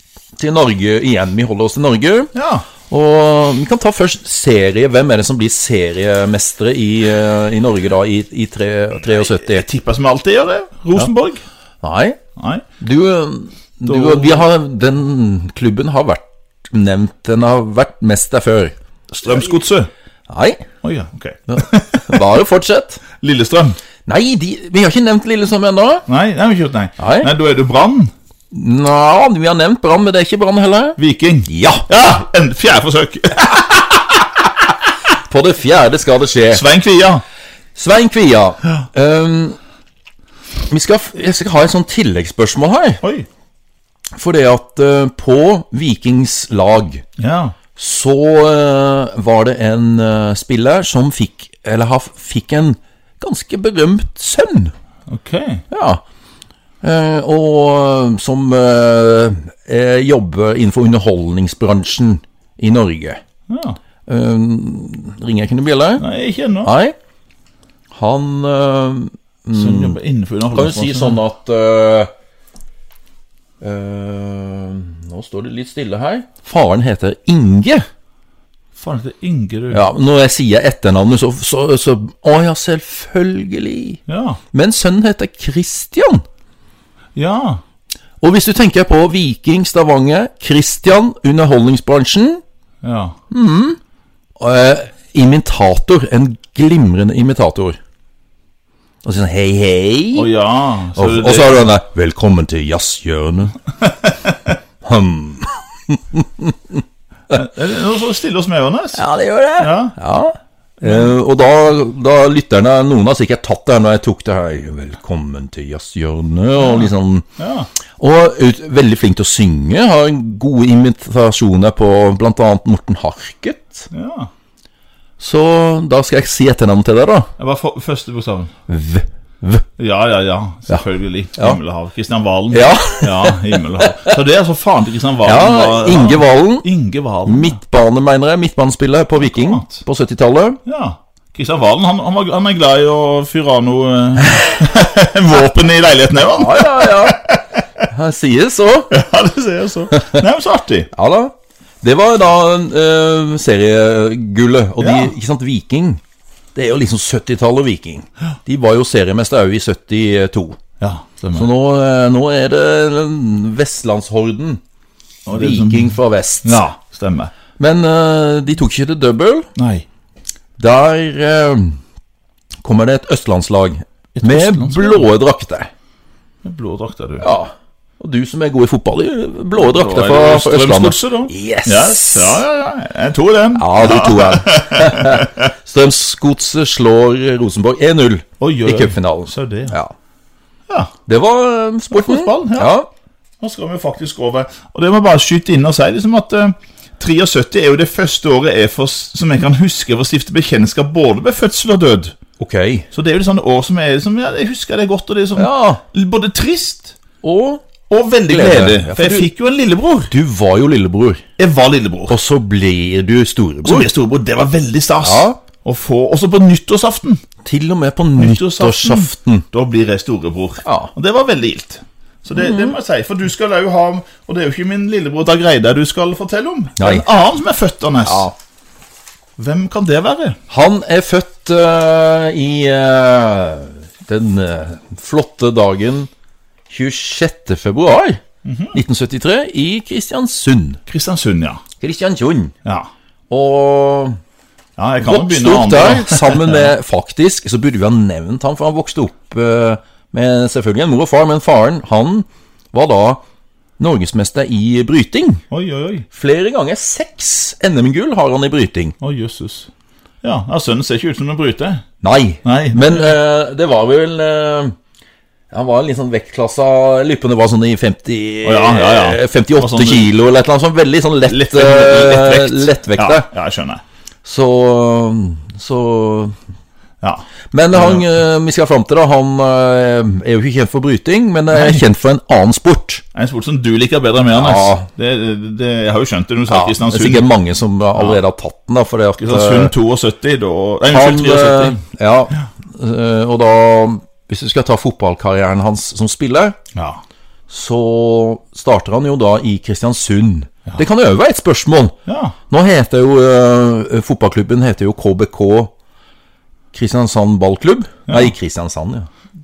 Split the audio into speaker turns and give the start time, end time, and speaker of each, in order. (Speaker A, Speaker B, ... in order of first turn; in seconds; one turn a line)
Speaker A: 0.4-2.3
Speaker B: 2.3-2.7
Speaker A: 2.9-9.7
Speaker B: 9.2-11.4
Speaker A: 11.8-12.2
Speaker B: 12.4-12.7
Speaker A: 12.8-18.8
Speaker B: 13.9-14.4
Speaker B: 19.1-19.9
Speaker A: 20.3-20.7
Speaker B: 20.8-22.3
Speaker A: 21.5-23.0
Speaker B: 23.2-23.8
Speaker A: 24.1-26.1
Speaker B: 26.1-28.1
Speaker A: 27.0-27.3
Speaker A: 28.5-31.9
Speaker B: 31.0-34.1
Speaker A: 35.3-36.6
Speaker B: 36.5-37.2
Speaker A: 37.8-39.6
Speaker A: 40.7-43.0
Speaker B: 43.0-43.3
Speaker A: 44.2-47.0
Speaker B: 47.2-47.6
Speaker A: 47.8-54.7
Speaker B: 55.1-55.6
Speaker A: 55.7-56.0
Speaker A: 56.8-63.2
Speaker B: 63.5-63.8
Speaker A: 64.1-66.0
Speaker B: 66.0-66.7
Speaker A: 66.6-67.0
Speaker A: 67.9-70.0
Speaker B: 69.5-71.2
Speaker A: 70.5-72.1
Speaker A: 73.6-77.9
Speaker B: 78.8-79.8
Speaker A: 79.7-84.0
Speaker B: 84.1-84.4
Speaker A: 84.5-86.2
Speaker B: 87.2-87.6
Speaker A: 88.2-92.4
Speaker B: 92.8-93.2
Speaker A: 93.3-93.8
Speaker A: 94.4-97.8
Speaker A: 99.0-100.3
Speaker B: 100.2-101.7
Speaker A: 101.0-103.6
Speaker B: 104.0-104.3
Speaker A: 104.8-106.8
Speaker B: 107.3-109.0
Speaker A: 109.0-117.3
Speaker B: 109.6-109.9
Speaker B: 116.6-117.7
Speaker A: 118.0-123.9
Speaker B: 123.9-124.3
Speaker A: 125.2-127.3
Speaker B: 127.4-128.5
Speaker A: 128.7-129.7
Speaker B: 129.8-137.6
Speaker A: 132.5-134.2
Speaker A: 135.2-136.7
Speaker A: 137.3-140.6
Speaker B: 139.2-139.8
Speaker B: 140.7-147.4
Speaker A: 146.3-147.2
Speaker A: 147.9-148.9
Speaker B: 148.9-150.9
Speaker A: 149.9-150.2
Speaker A: 150.9-156.0
Speaker B: 154.8-155.1
Speaker A: 156.6-160.6
Speaker B: 160.8-161.5
Speaker A: 161.3-164.6
Speaker B: 165.3-167.3
Speaker A: 165.3-166.6
Speaker A: 167.6-169.5
Speaker B: 169.6-169.9
Speaker A: 170.6-171.8
Speaker A: 172.6-175.7
Speaker B: 174.2-175.1
Speaker B: 176.4-177.3
Speaker A: 177.2-182.4
Speaker B: 179.6-185.5
Speaker A: 183.6-189.9
Speaker B: 188.4-189.8
Speaker A: 191.1-192.9
Speaker B: 191.9-192.7
Speaker B: 193.4-202.2
Speaker A: 202.4-202.9
Speaker B: 202.9-207.0
Speaker A: 205.4-205.8
Speaker A: 207.2-207.6
Speaker B: 207.9-210.1
Speaker A: 208.3-209.3
Speaker A: 210.1-211.2
Speaker B: 211.4-212.2
Speaker A: 212.1-213.9
Speaker B: 213.6-217.2
Speaker A: 215.0-215.4
Speaker A: 217.4-219.5
Speaker B: 218.2-228.3
Speaker A: 220.6-220.9
Speaker A: 222.4-222.7
Speaker A: 226.8-227.1
Speaker A: 228.1-228.3
Speaker B: 229.4-230.4
Speaker A: 230.5-236.1
Speaker A: 236.7-238.2
Speaker B: 238.4-238.8
Speaker A: 238.7-240.8
Speaker B: 240.9-241.6
Speaker A: 241.8-242.5
Speaker A: 243.3-244.2
Speaker B: 244.8-246.7
Speaker A: 245.0-253.2
Speaker A: 253.8-255.4
Speaker B: 255.5-256.1
Speaker A: 256.1-258.9
Speaker B: 259.0-259.7
Speaker B: 260.2-261.9
Speaker A: 262.0-264.8
Speaker B: 262.4-263.1
Speaker A: 265.5-273.3
Speaker B: 268.4-270.1
Speaker B: 271.3-273.8
Speaker A: 274.2-276.4
Speaker B: 277.0-278.1
Speaker A: 277.5-283.0
Speaker B: 281.5-281.8
Speaker B: 283.1-287.3
Speaker A: 284.3-284.9
Speaker A: 286.5-289.7
Speaker B: 289.2-291.8
Speaker A: 290.9-296.6
Speaker B: 296.7-297.0
Speaker A: 297.5-302.0
Speaker B: 302.1-302.4
Speaker A: 302.5-305.7
Speaker A: 306.7-309.1